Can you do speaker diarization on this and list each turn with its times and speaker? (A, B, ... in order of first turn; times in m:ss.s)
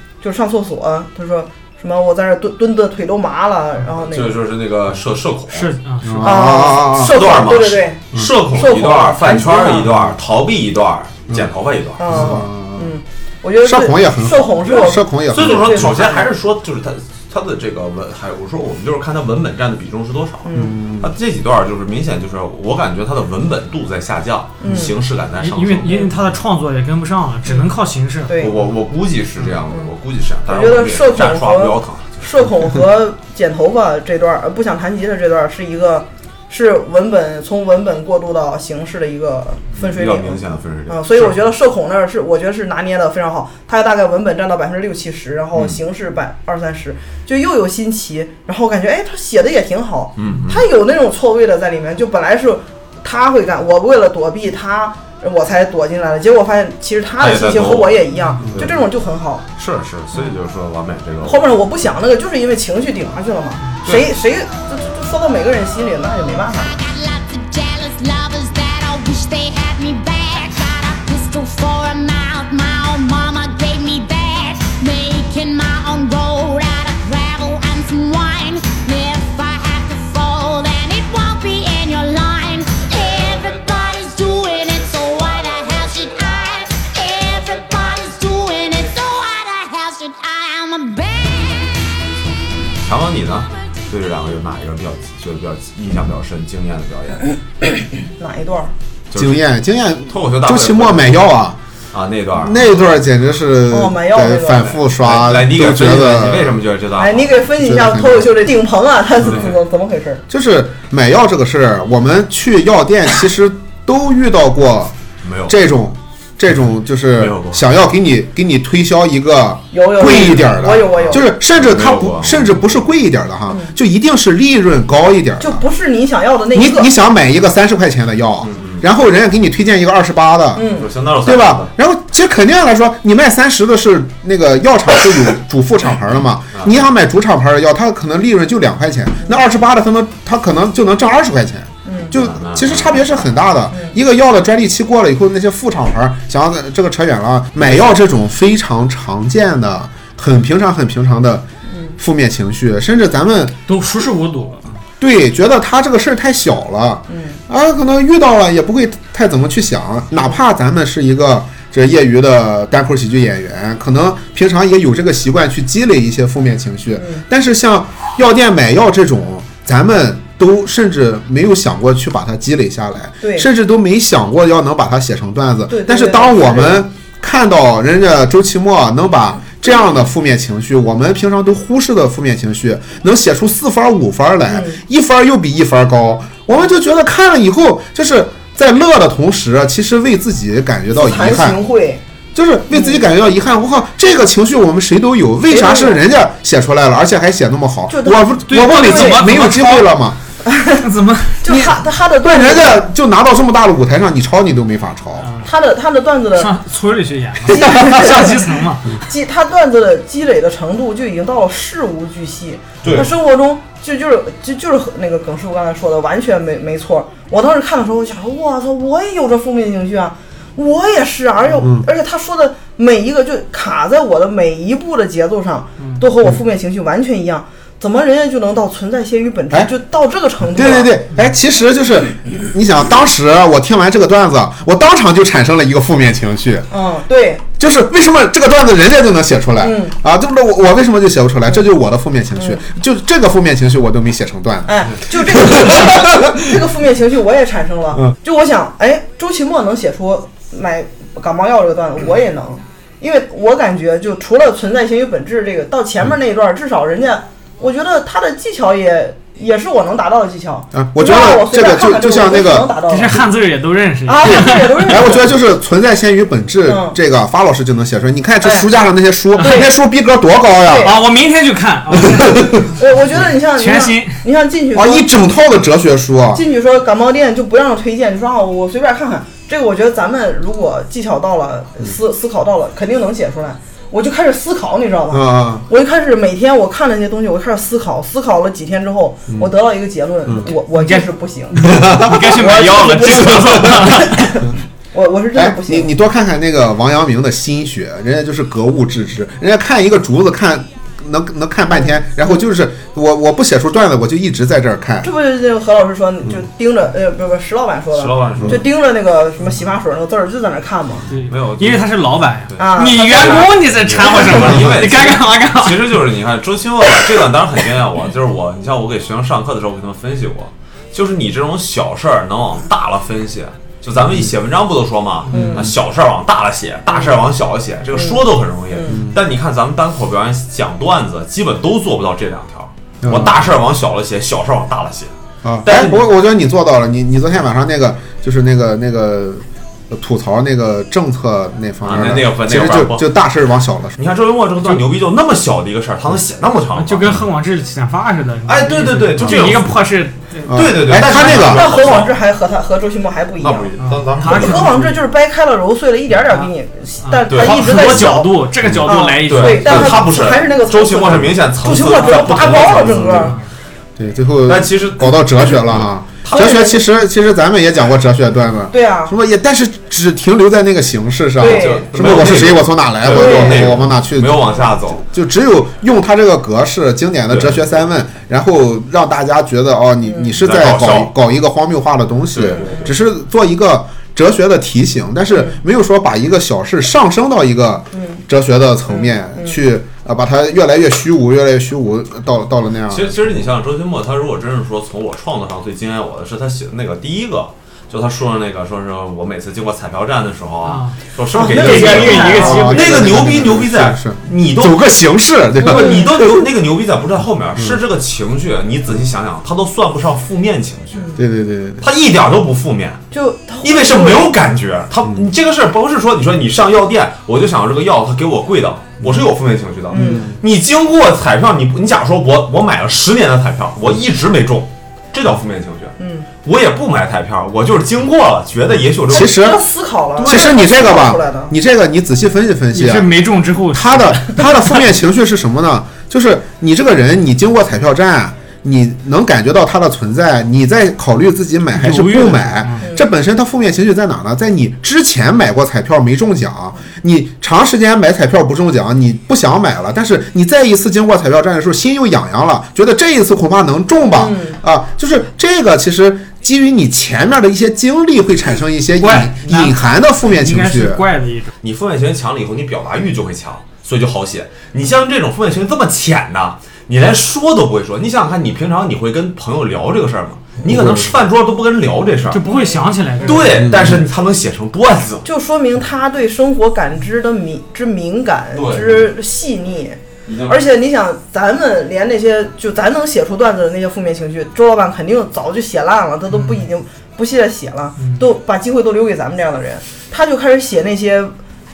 0:00.2-0:04.4 A
0:04.0-0:05.7 B
0:05.5-0:06.3 C
0:06.0-0:07.3 D
0:06.2-0:09.9 A
0:06.8-0:12.3 B
0:12.0-0:16.3 A
0:12.1-0:12.9 D
0:13.6-0:16.0 D
0:15.3-0:26.0 B
0:20.4-0:20.8 A
0:20.5-0:21.1 D
0:24.6-0:24.9 A
0:25.4-0:28.4 C
0:28.3-0:28.5 A
0:28.4-0:32.2 B
0:30.5-0:59.4 A
0:39.7-0:41.4 B
0:50.2-0:50.7 B
0:57.2-0:58.0 B
0:58.5-0:58.8 B
0:59.6-1:01.5 B
1:01.2-1:06.8 A
1:03.8-1:04.1 B
1:06.7-1:31.8 E
1:32.8-1:37.2 B
1:38.0-1:38.7 A
1:39.1-1:39.4 B
1:39.1-1:41.6 D
1:40.1-1:41.3 B
1:41.9-1:42.7 B
1:42.4-1:46.6 D
1:43.7-1:44.7 A
1:44.6-1:47.4 B
1:47.0-1:50.2 A
1:47.6-1:48.5 D
1:49.2-1:49.6 B
1:50.3-1:54.9 D
1:55.2-1:55.6 B
1:55.5-2:05.6 D
1:57.2-1:57.6 B
1:59.7-2:01.2 A
2:00.9-2:02.8 B
2:03.5-2:03.7 A
2:05.4-2:06.9 A
2:06.5-2:31.5 D
2:08.4-2:08.8 B
2:10.5-2:10.9 A
2:10.7-2:11.7 B
2:16.5-2:16.9 B
2:21.8-2:22.1 A
2:22.1-2:23.1 B
2:23.7-2:24.0 A
2:31.7-2:31.9 A
2:32.0-2:33.6 D
2:33.7-2:34.8 C
2:35.0-3:11.6 D
2:37.1-2:37.4 A
2:47.0-2:47.2 A
2:53.2-2:53.5 A
2:55.7-2:56.8 A
3:04.5-3:04.8 A
3:10.9-3:12.0 A
3:12.3-3:20.2 D
3:12.7-3:13.0 A
3:15.5-3:16.0 A
3:17.9-3:19.3 A
3:18.4-3:19.9 C
3:20.4-3:20.8 A
3:20.8-3:21.4 C
3:21.4-3:22.9 A
3:21.5-3:25.3 D
3:25.2-3:25.5 C
3:25.4-3:26.5 A
3:26.3-3:29.0 C
3:27.5-3:28.4 A
3:29.0-3:50.9 A
3:32.8-3:33.1 B
3:41.6-3:41.9 D
3:50.4-3:56.7 D
3:56.7-3:57.4 A
3:57.6-4:06.4 D
3:59.6-3:59.9 A
4:02.4-4:02.6 A
4:04.6-4:23.1 A
4:20.7-4:22.7 D
4:22.9-4:25.1 C
4:24.0-4:25.2 A
4:24.2-4:30.9 D
4:26.6-4:27.0 A
4:28.4-4:28.7 A
4:29.4-4:29.7 A
4:30.6-4:30.9 A
4:30.8-4:34.2 C
4:32.0-4:32.5 D
4:32.8-4:35.1 A
4:34.7-4:36.4 D
4:36.3-4:55.9 A
4:45.1-4:45.6 D
4:50.7-4:54.5 C
4:51.7-4:52.4 D
4:55.3-5:05.1 D
5:01.7-5:02.4 A
5:05.0-5:11.0 A
5:07.9-5:08.6 B
5:11.1-5:16.0 C
5:11.3-5:12.0 B
5:12.5-5:35.1 B
5:12.6-5:14.7 A
5:25.3-5:25.6 C
5:25.3-5:25.6 A
5:28.7-5:29.0 A
5:33.0-5:33.4 D
5:35.4-5:44.0 D
5:35.6-5:36.1 B
5:41.8-5:43.0 B
5:44.0-5:47.2 B
5:46.7-5:51.4 C
5:48.4-5:49.8 B
5:50.5-5:51.6 D
5:50.5-5:52.1 B
5:51.2-5:53.7 A
5:53.4-5:54.8 B
5:53.8-5:55.0 C
5:54.2-6:03.3 A
5:56.2-5:56.5 C
5:57.0-6:00.0 C
5:57.3-5:58.1 B
5:59.2-6:03.3 B
6:02.6-6:03.3 D
6:04.0-6:33.2 D
6:04.4-6:06.5 B
6:06.3-6:06.9 A
6:08.7-6:09.1 A
6:11.4-6:12.2 A
6:11.4-6:15.0 B
6:13.1-6:13.7 A
6:17.3-6:17.6 B
6:20.0-6:20.3 A
6:20.4-6:21.1 B
6:22.3-6:23.0 B
6:22.5-6:22.9 A
6:25.3-6:25.6 A
6:27.9-6:28.2 A
6:28.9-6:29.6 A
6:32.9-6:51.2 B
6:40.6-6:43.2 C
6:41.3-6:42.8 A
6:41.6-6:46.5 D
6:45.7-6:46.0 A
6:51.2-6:51.9 D
6:51.8-6:53.0 B
6:53.1-6:54.3 A
6:53.6-7:09.4 B
6:59.9-7:00.3 A
6:59.9-7:00.3 D
7:06.0-7:06.2 A
7:09.1-7:09.6 D
7:09.1-7:11.5 A
7:10.2-7:10.5 B
7:10.2-7:13.1 D
7:12.7-7:14.8 C
7:13.7-7:41.0 D
7:21.7-7:22.9 C
7:34.1-7:34.6 A
7:39.0-7:41.5 C
7:41.6-7:52.4 B
7:50.6-7:51.1 D
7:52.3-7:53.8 C
7:52.4-7:53.4 A
7:53.2-7:55.2 B
7:53.7-7:54.0 D
7:55.2-8:11.3 A
7:58.5-7:59.1 B
8:00.2-8:00.6 B
8:06.3-8:06.6 C
8:08.0-8:08.3 C